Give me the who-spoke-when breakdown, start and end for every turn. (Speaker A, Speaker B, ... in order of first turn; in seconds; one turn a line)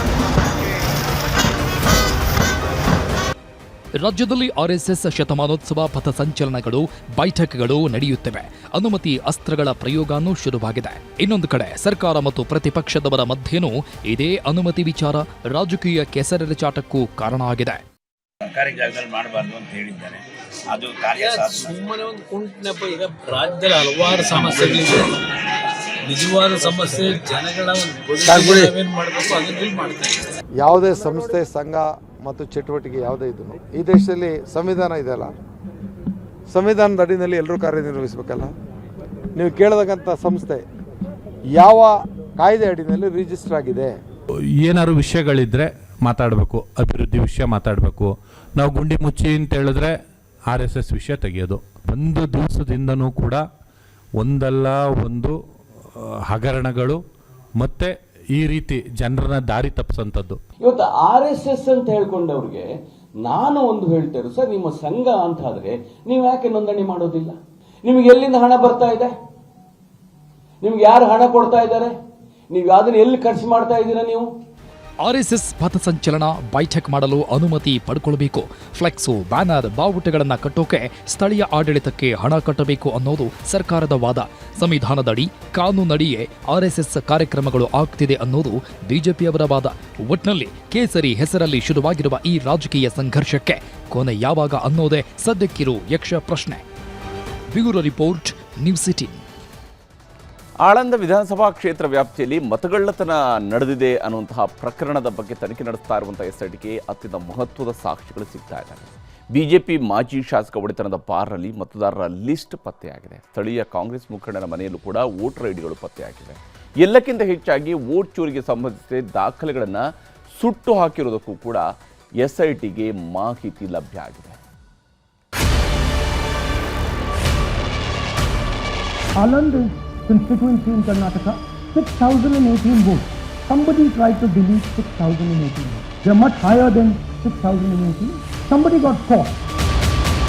Speaker A: 4.0-17.8
Speaker B: 18.4-21.7
Speaker C: 21.1-25.2
Speaker C: 26.1-30.2
Speaker D: 30.6-35.3
Speaker D: 36.5-38.5
Speaker D: 39.4-40.6
Speaker D: 41.5-43.9
Speaker E: 44.6-53.4
Speaker E: 54.2-55.3
Speaker E: 56.0-57.0
Speaker E: 57.6-60.4
Speaker F: 60.6-62.6
Speaker F: 63.2-69.1
Speaker F: 70.6-71.9
Speaker F: 72.5-74.3
Speaker A: 75.0-96.6
Speaker A: 97.5-99.2
Speaker G: 100.6-119.8
Speaker G: 120.3-121.7
Speaker G: 122.2-124.4
Speaker H: 129.2-139.3